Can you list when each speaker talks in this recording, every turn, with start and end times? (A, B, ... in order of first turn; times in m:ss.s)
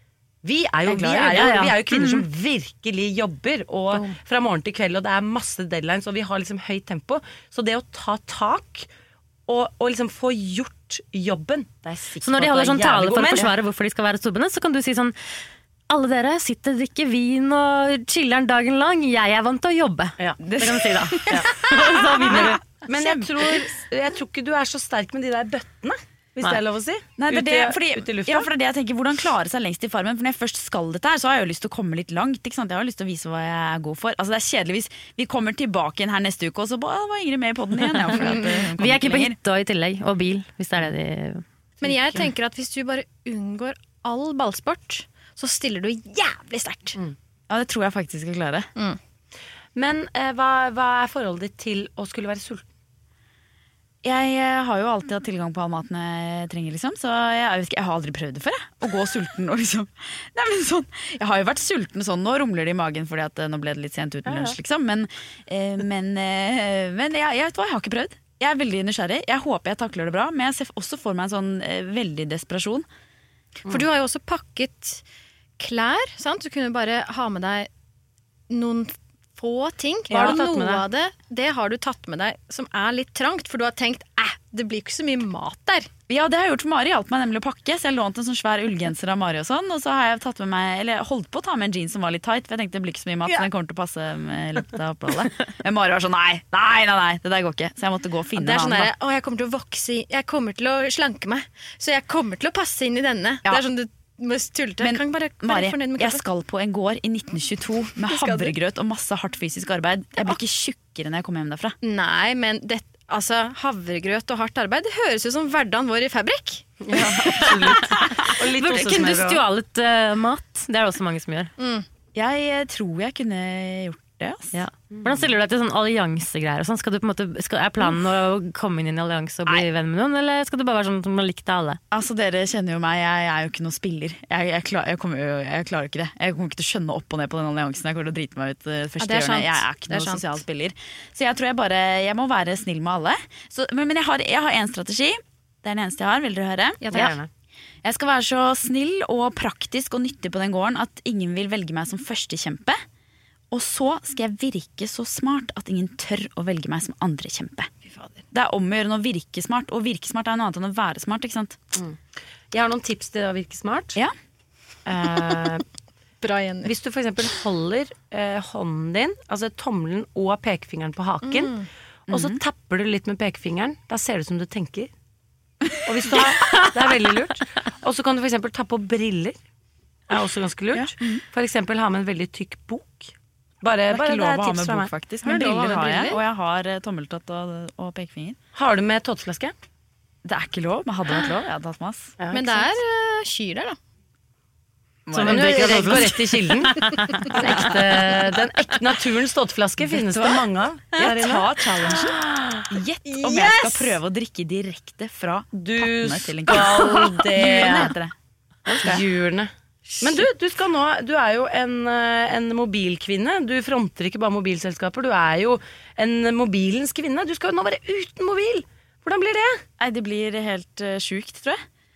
0:00.4-0:08.9 A
0:00.8-0:02.2 B
0:09.5-0:13.5 A
0:12.2-0:22.6 B
0:20.4-0:23.6 C
0:22.8-0:28.5 A
0:27.2-0:39.4 C
0:37.8-0:41.4 B
0:38.2-0:38.6 D
0:41.8-0:47.0 D
0:47.5-0:48.7 C
0:49.8-0:52.6 A
0:54.0-1:12.8 C
1:04.2-1:04.5 A
1:13.7-1:15.0 D
1:15.6-1:17.7 D
1:18.5-1:25.9 D
1:20.1-1:20.8 A
1:26.1-1:38.9 C
1:38.4-1:46.2 D
1:44.8-1:51.8 C
1:48.0-1:48.5 D
1:51.8-1:57.1 D
1:56.8-1:59.4 A
1:57.4-2:01.5 B
2:01.6-2:01.8 D
2:02.1-2:04.6 C
2:04.5-2:11.8 B
2:11.9-2:27.1 C
2:19.0-2:20.4 D
2:26.8-2:27.2 D
2:26.9-2:27.3 A
2:27.8-2:32.8 C
2:33.5-2:37.7 C
2:37.8-2:38.2 D
2:38.3-2:41.6 C
2:42.5-2:44.0 A
2:44.8-2:45.6 A
2:46.2-2:46.7 D
2:46.6-2:54.9 A
2:51.2-2:51.7 D
2:52.1-2:52.4 C
2:55.8-2:59.4 A
3:00.1-3:04.9 A
3:00.7-3:01.2 C
3:03.9-3:08.4 C
3:05.2-3:06.2 D
3:08.5-3:09.5 A
3:10.2-3:12.6 C
3:12.2-3:12.6 A
3:12.3-3:13.8 D
3:15.1-3:16.2 C
3:15.1-3:17.7 B
3:15.2-3:16.8 A
3:17.3-3:22.7 A
3:20.9-3:22.1 D
3:21.0-3:21.9 C
3:22.7-3:28.1 C
3:23.0-3:23.9 D
3:25.5-3:27.9 A
3:28.7-3:39.6 A
3:28.7-3:29.0 C
3:39.8-3:41.6 C